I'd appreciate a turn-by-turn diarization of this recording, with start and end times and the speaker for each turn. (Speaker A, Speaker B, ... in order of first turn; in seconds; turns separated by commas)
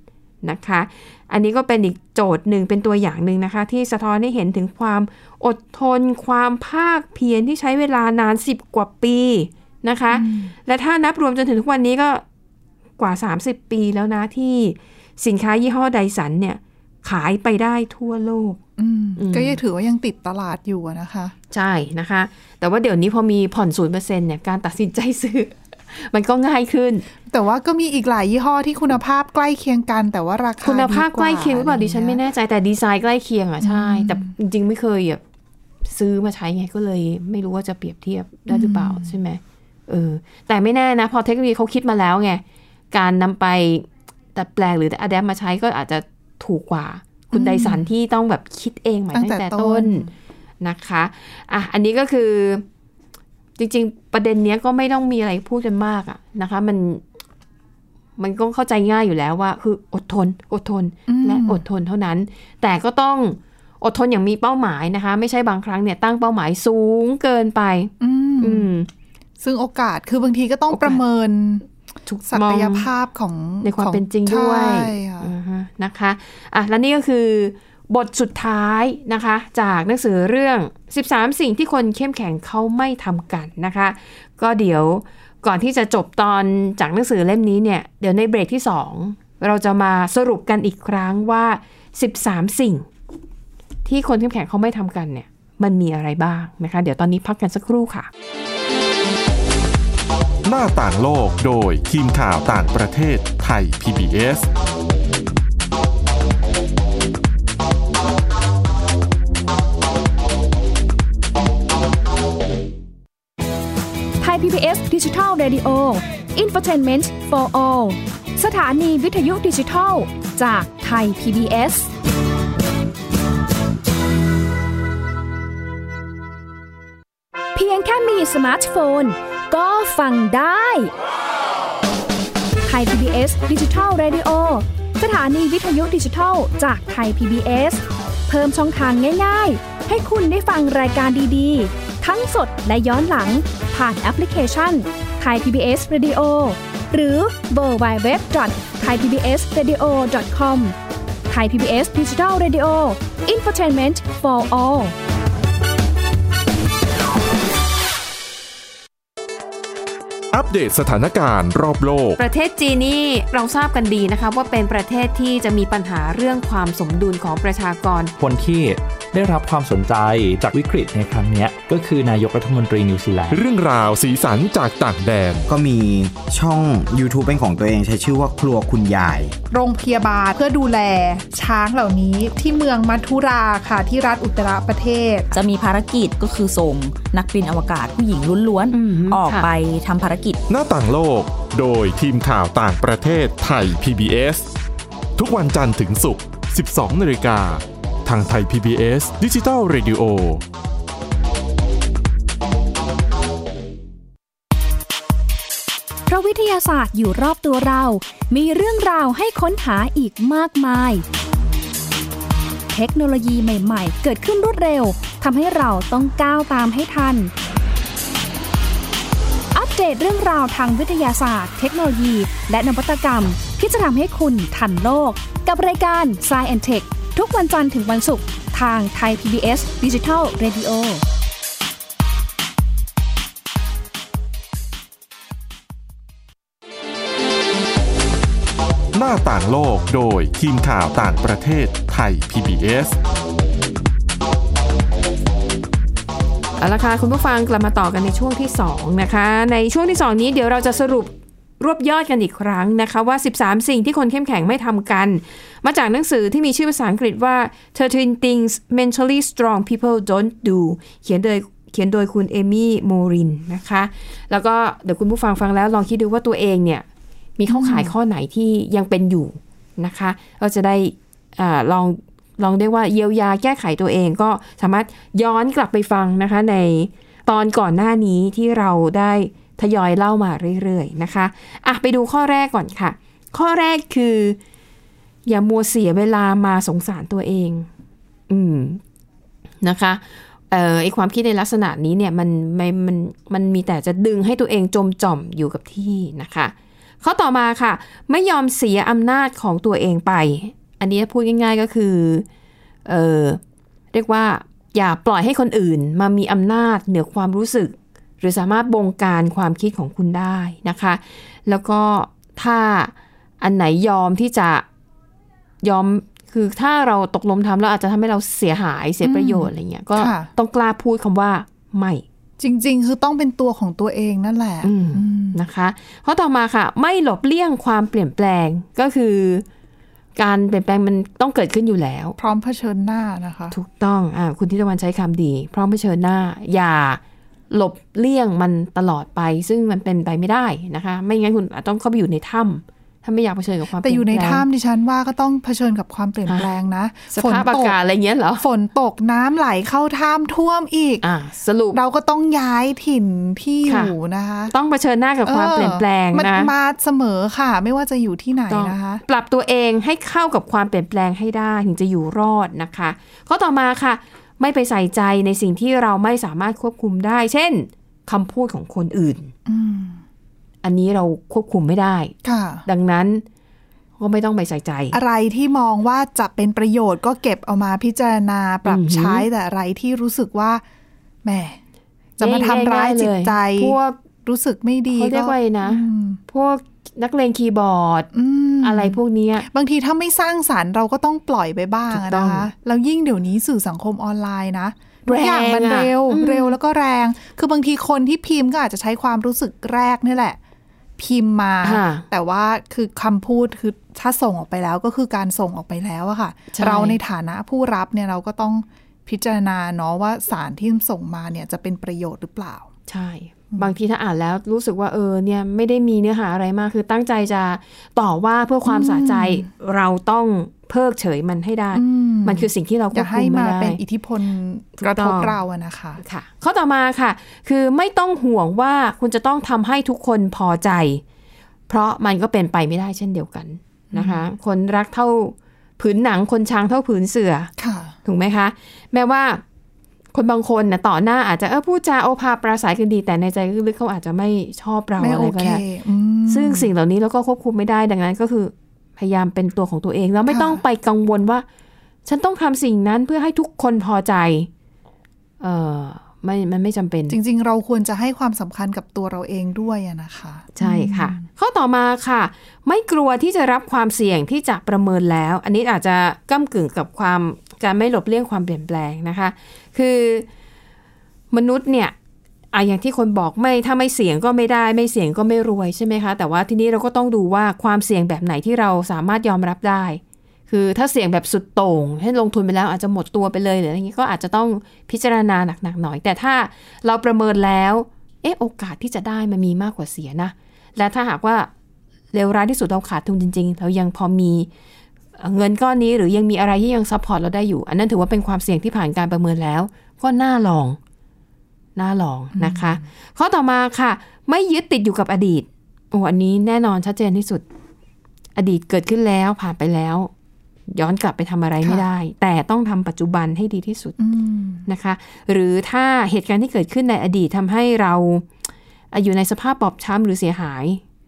Speaker A: 0.4-12.2, Speaker B: 10.1-10.5, Speaker A: 13.0-18.6, Speaker B: 18.8-21.3, Speaker A: 19.1-19.6, Speaker A: 21.5-27.1, Speaker B: 27.2-32.2, Speaker A: 30.6-35.2, Speaker B: 33.6-34.3, Speaker A: 35.9-50.1, Speaker B: 38.5-39.2, Speaker B: 47.3-47.9, Speaker B: 49.1-50.1, Speaker A: 50.6-52.6, Speaker A: 53.6-57.0, Speaker A: 58.2-68.9, Speaker B: 61.1-61.6, Speaker B: 68.0-68.7, Speaker B: 69.4-71.7, Speaker A: 70.7-71.0, Speaker A: 72.0-72.9, Speaker B: 72.3-75.3, Speaker A: 73.6-92.9, Speaker A: 93.8-98.1, Speaker C: 100.4-104.5, Speaker D: 114.2-121.9, Speaker D: 127.5-130.9, Speaker D: 132.7-150.8, Speaker D: 151.3-154.9, Speaker C: 160.3-162.2, Speaker A: 162.2-168.1, Speaker E: 168.2-173.4, Speaker C: 173.3-175.5, Speaker F: 175.5-179.3, Speaker B: 179.5-185.3, Speaker G: 185.3-190.4, Speaker A: 188.7-189.5, Speaker C: 190.5-194.5, Speaker C: 195.2-200.4, Speaker D: 206.1-211.0, Speaker D: 212.7-217.3, Speaker D: 219.5-231.0, Speaker C: 238.9-243.0, Speaker A: 246.6-266.9, Speaker A: 267.4-284.4, Speaker B: 267.5-267.9, Speaker A: 285.2-287.7, Speaker A: 288.3-288.8, Speaker A: 289.6-302.2, Speaker A: 302.9-303.4, Speaker A: 303.9-314.6, Speaker A: 315.6-322.0, Speaker B: 319.0-320.3, Speaker B: 322.4-325.4, Speaker A: 324.6-329.4, Speaker A: 330.1-332.2, Speaker B: 332.2-333.6, Speaker A: 333.5-344.4, Speaker B: 343.8-347.8, Speaker A: 346.2-346.5, Speaker A: 347.1-348.4, Speaker B: 348.4-351.0, Speaker A: 351.0-351.8, Speaker B: 351.7-354.5, Speaker A: 353.6-353.9, Speaker A: 354.5-356.5, Speaker B: 355.2-359.0, Speaker A: 358.5-369.3, Speaker B: 369.5-370.0, Speaker A: 370.6-372.1, Speaker B: 372.2-372.6, Speaker A: 372.6-373.2, Speaker A: 374.0-375.0, Speaker B: 374.9-380.6, Speaker A: 378.6-379.3, Speaker B: 381.2-381.6, Speaker A: 382.2-384.0, Speaker B: 382.2-386.2, Speaker A: 384.9-388.1, Speaker B: 388.1-400.4, Speaker A: 388.6-389.5, Speaker A: 391.9-392.5, Speaker A: 395.1-396.6, Speaker B: 401.0-412.7, Speaker A: 401.6-402.1, Speaker A: 406.5-407.0, Speaker A: 412.9-423.8, Speaker B: 418.6-419.5, Speaker B: 421.7-426.0, Speaker A: 424.8-425.4, Speaker A: 426.0-431.0, Speaker A: 431.7-437.5, Speaker B: 433.9-434.2, Speaker B: 437.6-437.9, Speaker A: 438.1-439.4, Speaker A: 440.1-445.6, Speaker B: 445.0-446.7, Speaker A: 446.3-451.4, Speaker B: 450.3-450.6, Speaker A: 452.1-454.5, Speaker A: 455.4-457.2, Speaker B: 457.1-461.2, Speaker A: 460.6-470.2, Speaker A: 471.3-471.9, Speaker A: 472.5-491.5, Speaker A: 492.1-494.5, Speaker A: 495.2-500.8, Speaker A: 501.8-507.4, Speaker B: 502.4-502.9, Speaker A: 508.4-510.1, Speaker A: 510.7-514.0, Speaker B: 514.0-514.6, Speaker A: 514.6-518.3, Speaker A: 518.9-520.8